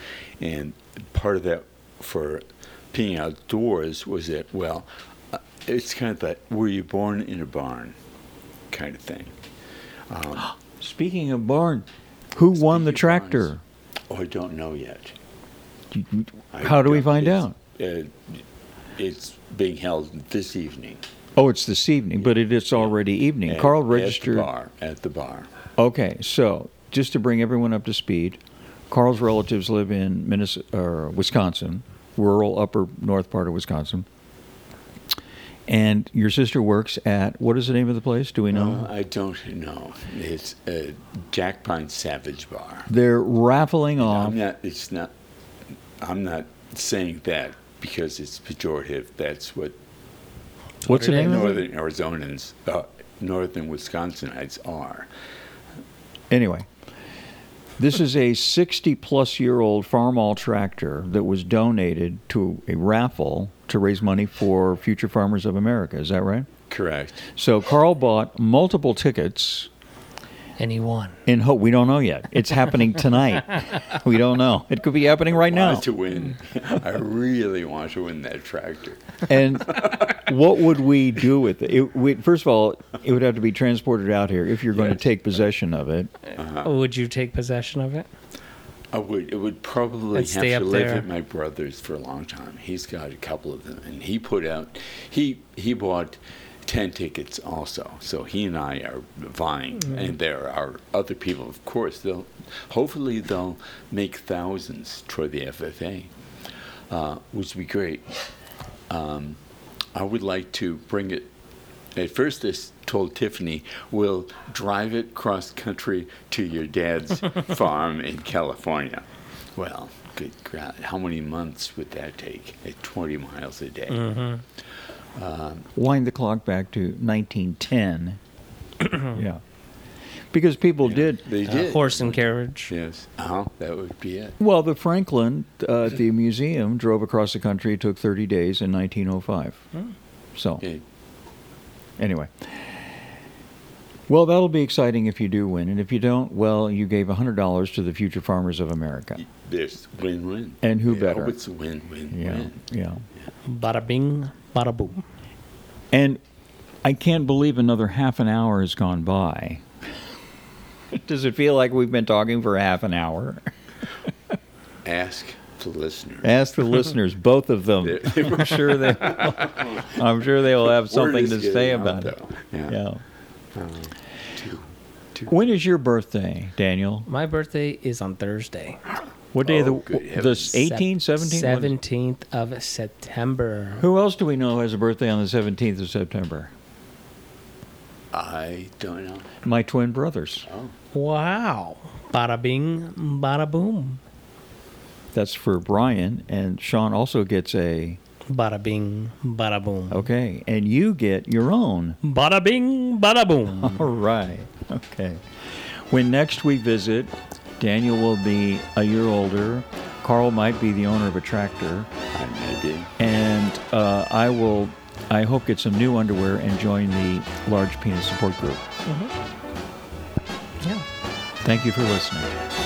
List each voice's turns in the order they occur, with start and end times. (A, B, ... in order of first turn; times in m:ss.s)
0:00.4-0:08.0 A
0:08.7-0:09.4 A
0:10.1-0:10.5 A
0:10.4-0:13.6 B
0:12.5-0:13.5 A
0:14.1-0:15.2 A
0:15.9-0:17.6 B
0:16.5-0:18.4 A
0:19.0-0:21.0 A
0:21.4-0:24.5 B
0:23.5-0:25.5 A
0:25.8-0:34.1 B
0:35.7-0:38.9 B
0:38.5-0:42.9 A
0:42.9-0:44.4 B
0:44.0-0:45.1 A
0:46.0-0:49.8 A
0:50.8-0:51.6 C
0:50.9-0:51.6 B
0:50.9-0:55.1 A
0:56.3-0:56.7 B
0:57.8-1:06.5 B
1:06.7-1:07.3 A
1:07.3-1:09.7 B
1:10.6-1:11.2 C
1:11.3-1:15.9 B
1:15.3-1:20.2 A
1:19.3-1:26.1 B
1:24.7-1:25.1 A
1:26.4-1:26.7 A
1:26.6-1:28.1 C
1:28.9-1:46.1 A
1:30.1-1:31.1 C
1:46.9-1:48.1 A
1:48.9-1:49.4 A
1:50.0-1:51.3 A
1:52.0-1:59.0 A
1:59.6-2:04.2 A
2:03.9-2:04.4 C
2:05.1-2:05.7 A
2:05.8-2:08.2 B
2:08.9-2:09.4 B
2:10.3-2:11.3 B
2:10.8-2:14.4 A
2:11.4-2:12.7 C
2:14.4-2:19.6 B
2:20.4-2:20.6 B
2:22.0-2:22.8 B
2:24.1-2:29.2 B
2:29.2-2:32.6 A
2:30.6-2:31.4 B
2:32.1-2:33.0 B
2:33.5-2:35.0 C
2:35.9-2:36.2 B
2:36.8-2:39.6 B
2:40.9-2:43.5 B
2:44.8-2:46.4 A
2:46.2-2:52.1 B
2:47.8-2:52.8 A
2:52.7-2:53.0 B
2:53.5-2:55.3 A
2:55.3-2:57.1 B
2:57.1-2:58.8 C
2:59.3-3:01.7 B
2:59.4-3:00.6 A
3:00.5-3:03.9 C
3:03.8-3:06.5 B
3:08.1-3:09.4 A
3:09.4-3:10.5 B
3:10.5-3:10.7 A
3:10.9-3:14.0 C
3:15.1-3:18.0 B
3:18.3-3:20.1 C
3:19.9-3:22.0 B
3:22.0-3:23.9 C
3:23.6-3:31.9 B
3:32.1-3:32.9 A
3:33.0-3:38.6 B
3:38.8-3:39.1 C
3:41.4-3:42.3 B